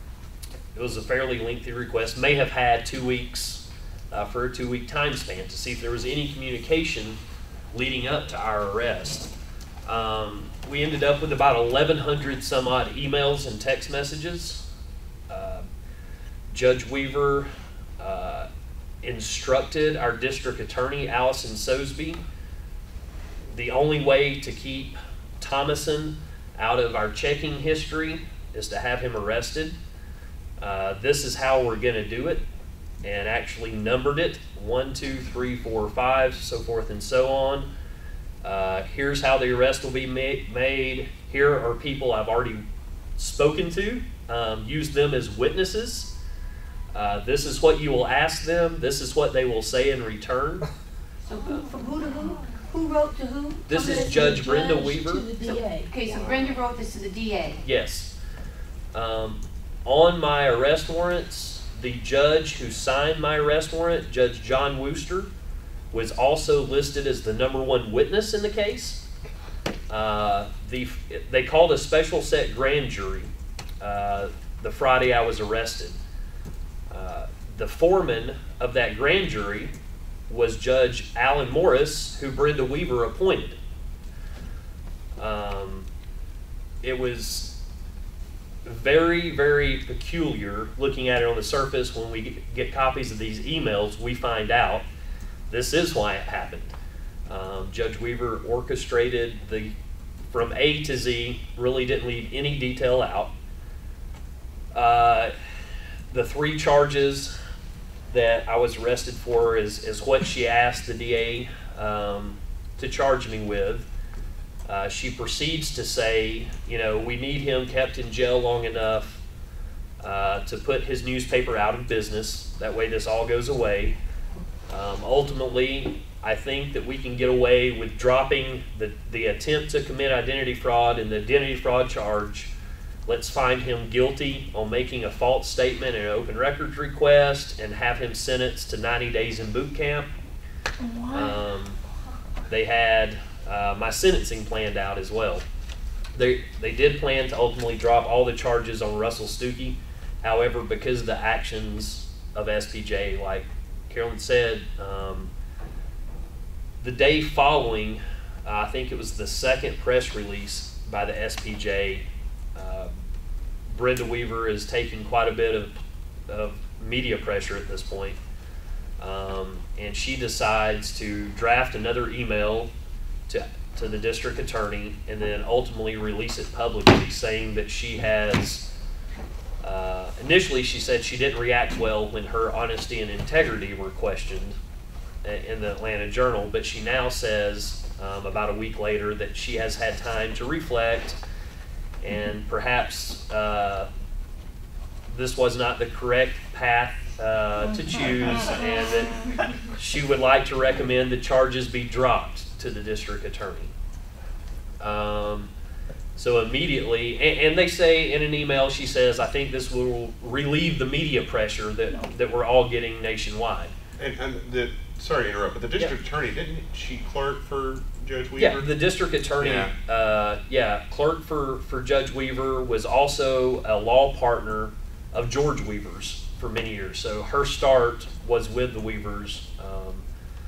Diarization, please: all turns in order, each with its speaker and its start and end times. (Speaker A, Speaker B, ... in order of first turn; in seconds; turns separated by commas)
Speaker A: 0.7-7.2, Speaker A: 7.7-9.3, Speaker A: 9.8-14.7, Speaker A: 15.3-15.6, Speaker A: 16.5-17.5, Speaker A: 18.0-18.5, Speaker A: 19.0-22.2, Speaker A: 23.5-29.8, Speaker A: 30.6-32.4, Speaker A: 33.0-37.7, Speaker A: 38.4-42.6, Speaker A: 43.2-46.1, Speaker A: 46.9-50.7, Speaker B: 51.2-54.4, Speaker A: 53.7-55.3, Speaker C: 53.7-55.9, Speaker B: 55.4-57.6, Speaker A: 57.6-58.1, Speaker A: 58.9-65.3, Speaker A: 65.9-69.0, Speaker A: 69.9-76.0, Speaker A: 76.9-79.7, Speaker A: 80.3-83.6, Speaker A: 85.2-85.9, Speaker A: 86.8-87.6, Speaker A: 88.6-94.8, Speaker A: 95.5-96.7, Speaker A: 97.3-99.7, Speaker A: 100.3-103.3, Speaker A: 104.7-105.3, Speaker A: 106.1-107.3, Speaker A: 108.1-113.9, Speaker A: 114.7-119.2, Speaker A: 120.0-124.0, Speaker A: 124.7-132.5, Speaker A: 133.1-140.1, Speaker C: 140.8-141.4, Speaker A: 141.1-141.8, Speaker A: 142.5-145.4, Speaker A: 146.1-155.3, Speaker A: 156.8-162.9, Speaker A: 163.7-165.7, Speaker A: 166.3-168.2, Speaker A: 169.0-172.7, Speaker A: 173.3-178.7, Speaker A: 179.6-184.6, Speaker A: 185.2-191.2, Speaker A: 192.0-193.9, Speaker A: 195.1-203.7, Speaker A: 204.8-205.5, Speaker A: 206.2-213.7, Speaker D: 214.0-218.7, Speaker A: 218.4-230.0, Speaker D: 219.4-219.7